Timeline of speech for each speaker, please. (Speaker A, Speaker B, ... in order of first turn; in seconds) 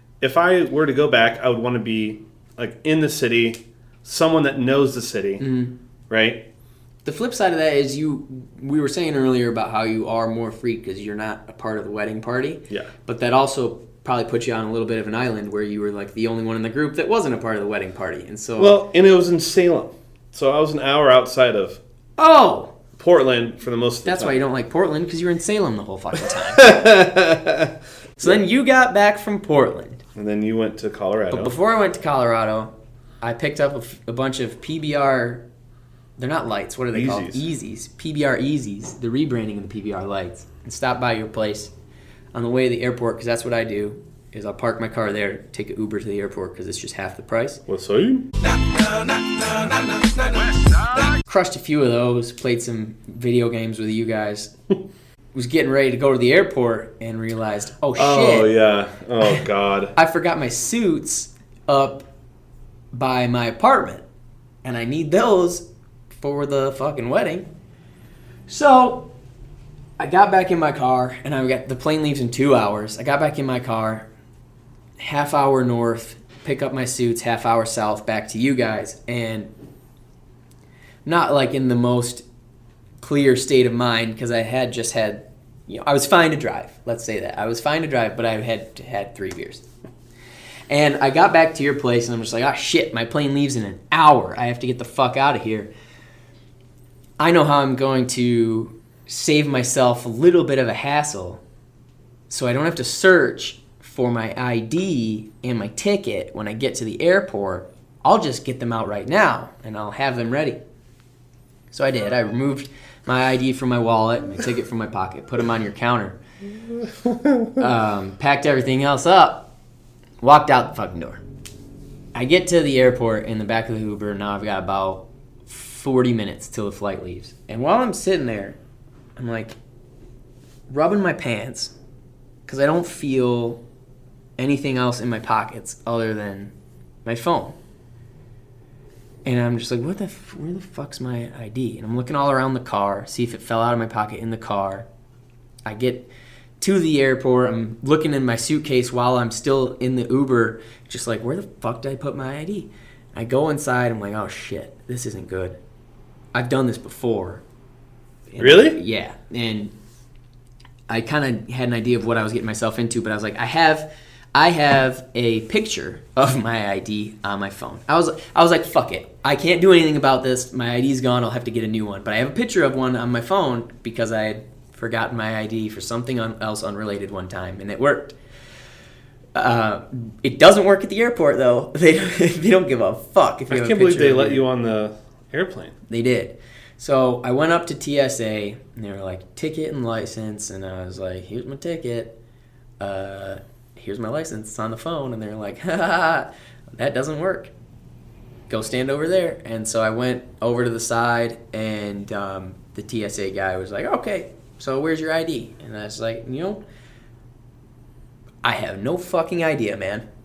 Speaker A: 0.2-5.5, 6.1-6.5, 18.6-21.8, 23.0-24.4, 26.3-28.4, 30.1-31.5, 36.9-37.5, 47.7-48.3, 57.9-59.9, 117.0-117.5, 158.4-158.8, 183.5-185.8
Speaker B: 5.4-5.7, 7.0-18.8, 22.2-22.7, 24.0-26.7, 28.2-30.0, 31.3-35.4, 36.2-41.7, 42.3-47.6, 51.3-54.5, 55.3-58.5, 60.0-62.1, 62.9-64.0, 64.6-65.6, 66.2-67.5, 68.5-69.1, 70.0-74.1, 75.0-79.5, 81.0-82.2, 83.0-89.6, 90.7-95.7, 97.2-101.4, 102.3-110.6, 111.7-116.2, 117.6-119.5, 120.2-121.2, 122.1-128.6, 129.2-129.6, 130.7-131.7, 132.5-133.6, 134.4-136.5, 137.1-137.6, 139.2-144.9, 145.7-155.6, 156.3-157.4, 158.3-159.7, 160.9-178.1, 179.3-184.4, 185.9-192.2, 192.8-197.5, 198.5-206.6, 208.4-210.1